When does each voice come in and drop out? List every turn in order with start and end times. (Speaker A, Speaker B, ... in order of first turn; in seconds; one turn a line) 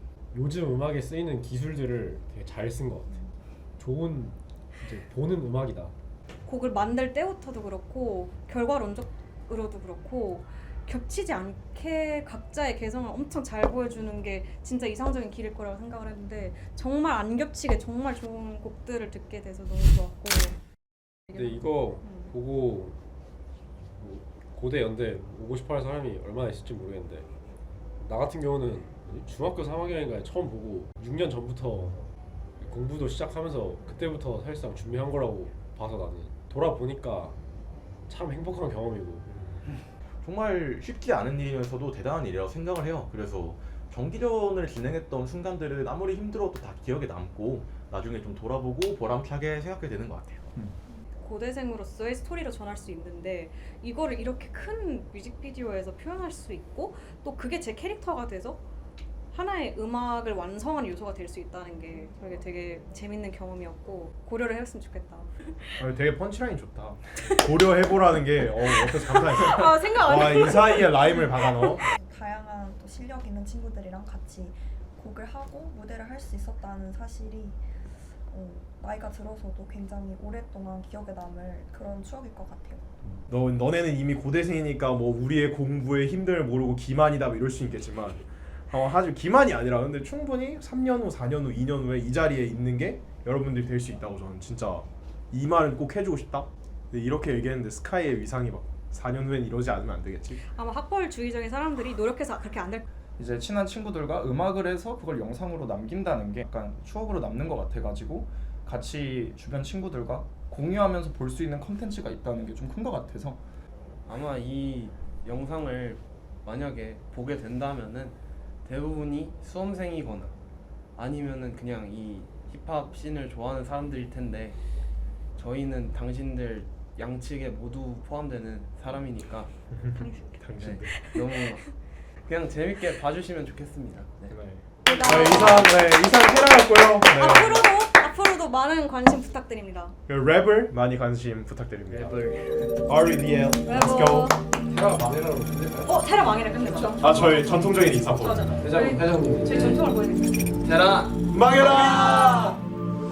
Speaker A: 0.3-3.2
Speaker A: 3.8-5.9
Speaker B: 6.5-20.6
Speaker B: 21.3-22.3
Speaker A: 21.3-23.0
Speaker A: 24.0-27.3
Speaker A: 28.0-32.0
Speaker A: 32.6-37.4
Speaker A: 38.1-39.5
Speaker C: 40.2-50.5
Speaker B: 51.2-58.6
Speaker B: 59.3-65.8
Speaker D: 65.8-71.9
Speaker B: 68.8-71.8
Speaker E: 71.8-77.6
Speaker E: 78.3-82.8
Speaker D: 83.3-100.4
Speaker B: 100.4-102.8
Speaker F: 103.2-113.4
Speaker G: 114.0-120.3
Speaker G: 121.0-124.6
Speaker G: 125.4-129.5
Speaker D: 129.7-130.9
Speaker B: 129.9-131.6
Speaker G: 130.6-131.7
Speaker G: 132.2-134.3
Speaker D: 134.3-137.6
Speaker B: 134.8-135.7
Speaker B: 137.0-139.9
Speaker D: 140.1-142.2
Speaker G: 141.9-142.8
Speaker D: 142.8-144.3
Speaker B: 143.6-144.4
Speaker A: 144.7-145.9
Speaker B: 145.8-150.6
Speaker D: 147.0-148.6
Speaker A: 148.6-149.8
Speaker G: 150.6-151.2
Speaker D: 151.3-152.3